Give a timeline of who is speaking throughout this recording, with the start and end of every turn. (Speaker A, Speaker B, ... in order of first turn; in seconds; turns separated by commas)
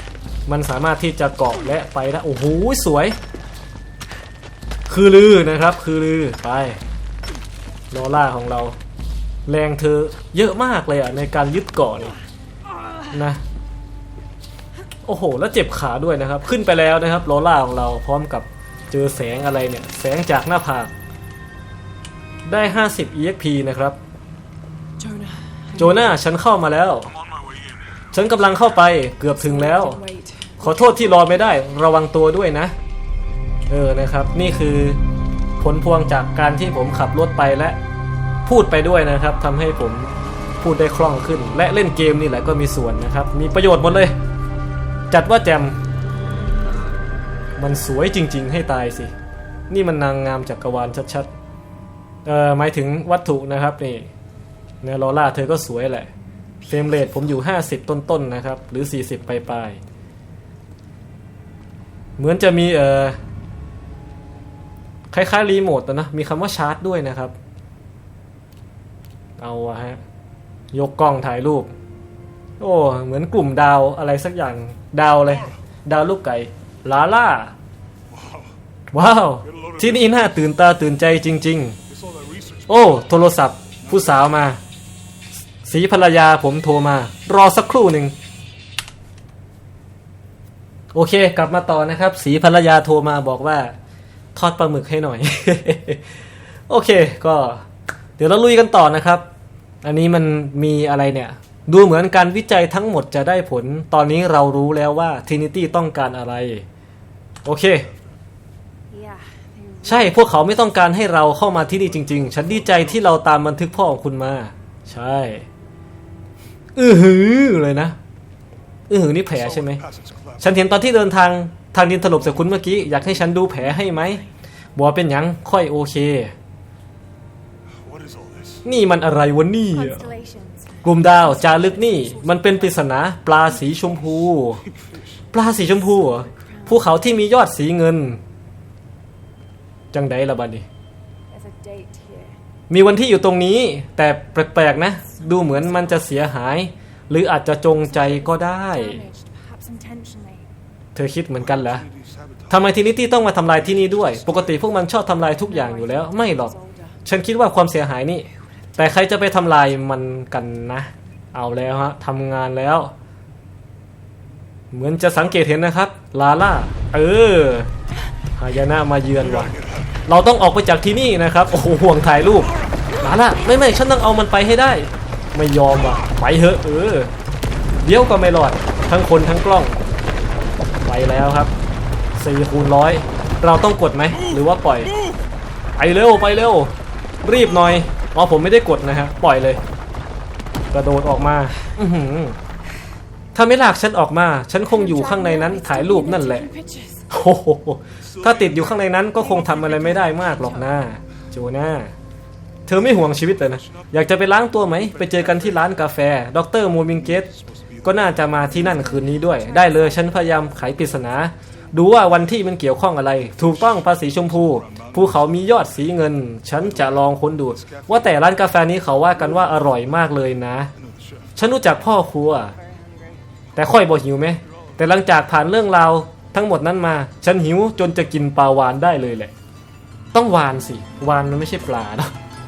Speaker A: 0.5-3.2, Speaker A: 4.9-6.8, Speaker A: 7.9-8.8, Speaker A: 9.5-12.1, Speaker A: 13.1-13.4, Speaker A: 15.1-20.9, Speaker A: 22.4-24.0, Speaker B: 25.0-26.1, Speaker A: 25.8-27.1, Speaker C: 27.1-28.1, Speaker A: 28.1-30.0, Speaker B: 29.2-31.4, Speaker A: 30.6-32.7, Speaker A: 33.7-35.0, Speaker A: 35.6-37.8, Speaker A: 38.5-44.1, Speaker A: 45.1-45.8, Speaker A: 47.6-49.1, Speaker A: 49.7-51.3, Speaker A: 52.2-54.1, Speaker A: 54.8-56.1, Speaker B: 56.6-57.2, Speaker A: 56.7-59.8, Speaker A: 62.2-63.2, Speaker A: 65.1-67.3, Speaker A: 69.4-70.0, Speaker A: 70.7-71.7, Speaker A: 72.6-77.5, Speaker C: 78.1-78.5, Speaker A: 78.9-81.8, Speaker C: 79.4-80.2, Speaker C: 81.9-83.1, Speaker A: 82.7-84.6, Speaker C: 83.8-84.2, Speaker A: 85.6-88.1, Speaker A: 90.9-93.8, Speaker A: 94.3-96.0, Speaker A: 96.7-97.6, Speaker A: 98.2-99.2, Speaker A: 99.8-106.6, Speaker A: 107.4-107.9, Speaker B: 108.9-110.4, Speaker A: 109.8-115.5, Speaker C: 111.4-113.2, Speaker A: 116.8-118.0, Speaker A: 118.9-119.8, Speaker C: 119.3-120.7, Speaker A: 120.4-124.2, Speaker B: 123.7-124.3, Speaker A: 124.8-126.3, Speaker C: 127.7-128.7, Speaker A: 128.6-130.1, Speaker B: 129.7-132.9, Speaker A: 130.8-134.6, Speaker B: 133.6-133.9, Speaker C: 134.6-135.1, Speaker A: 135.3-138.2, Speaker B: 135.9-137.0, Speaker A: 139.9-140.7, Speaker B: 141.3-142.4, Speaker A: 142.7-149.0, Speaker B: 145.0-146.2, Speaker B: 147.7-150.5, Speaker A: 150.9-151.8, Speaker C: 151.4-154.7, Speaker A: 152.5-156.5, Speaker B: 155.1-157.0, Speaker A: 157.0-162.9, Speaker B: 158.7-159.1, Speaker A: 164.7-167.7, Speaker A: 168.4-169.5, Speaker C: 169.2-169.9, Speaker A: 170.1-177.1, Speaker A: 177.8-179.8, Speaker A: 180.8-181.5, Speaker A: 182.2-184.9, Speaker C: 184.9-185.2, Speaker A: 185.8-186.7, Speaker A: 187.2-189.6, Speaker A: 190.7-192.4, Speaker A: 193.3-196.5, Speaker B: 194.7-197.1, Speaker A: 197.1-201.9, Speaker C: 198.0-199.1, Speaker B: 199.2-200.9, Speaker A: 202.7-207.3, Speaker C: 202.7-205.8, Speaker C: 206.9-208.4, Speaker A: 207.8-220.7, Speaker B: 208.3-211.2, Speaker C: 213.2-215.9, Speaker C: 216.5-219.7, Speaker C: 220.8-221.4, Speaker A: 221.4-222.5, Speaker B: 222.1-223.2, Speaker A: 223.6-229.3, Speaker A: 230.1-232.1